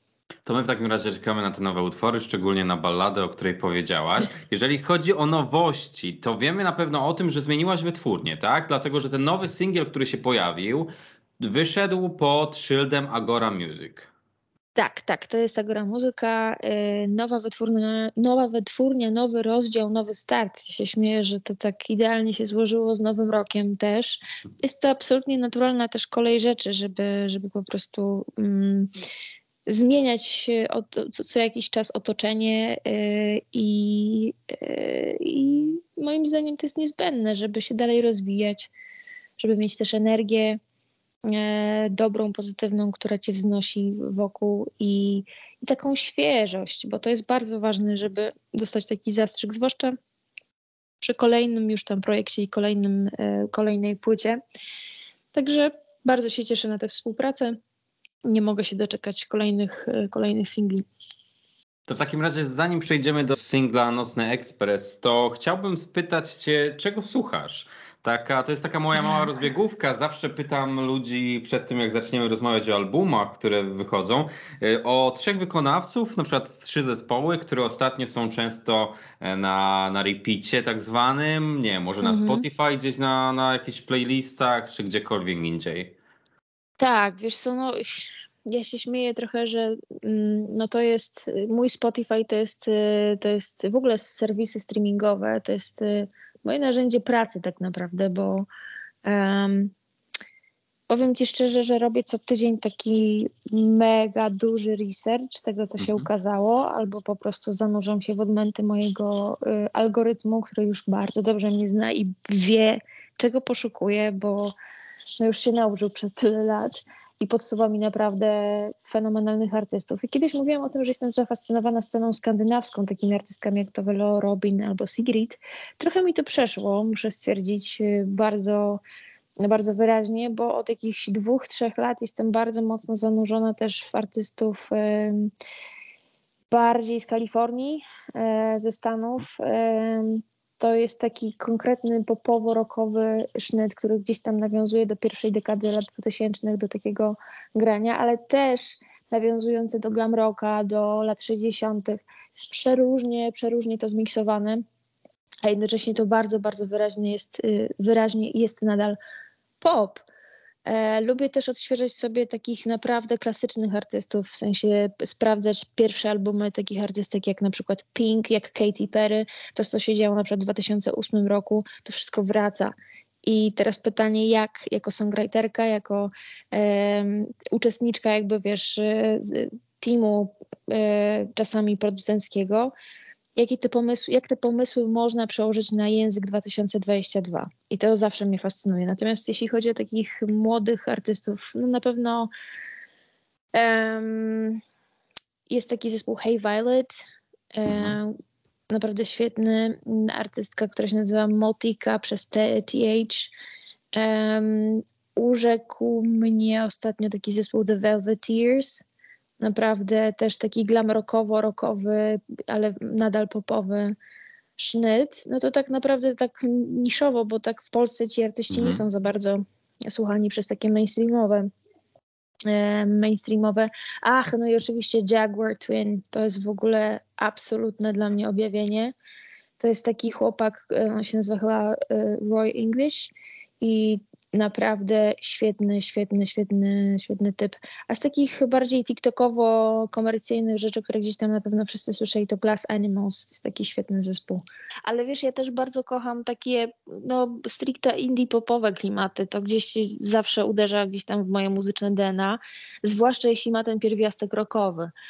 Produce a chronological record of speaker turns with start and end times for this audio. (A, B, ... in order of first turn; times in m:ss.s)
0:00.4-0:14.1 A
0:14.7-0:28.9 B
0:29.7-0:38.7 B
0:39.4-0:40.6 B
0:41.3-0:49.9 B
0:51.0-0:54.4 B
0:55.3-0:57.5 B
0:58.2-1:00.8 B
1:01.9-1:25.9 A
1:22.0-1:22.4 B
1:26.8-1:38.5 B
1:39.0-1:39.7 B
1:40.9-1:54.5 B
1:45.8-1:46.1 A
1:55.2-2:08.8 B
2:09.4-2:15.3 B
2:16.5-2:34.6 B
2:35.4-2:39.0 B
2:39.6-2:40.0 B
2:40.6-2:52.7 B
2:53.2-3:02.7 B
3:03.4-3:12.3 B
3:13.5-3:14.6 B
3:15.5-3:17.0 B
3:17.5-3:18.1 B
3:17.6-3:18.0 A
3:18.7-3:23.3 B
3:23.9-3:28.8 B
3:29.4-3:33.9 B
3:34.6-3:41.5 B
3:38.5-3:38.8 A
3:42.5-3:48.9 B
3:49.6-4:14.9 B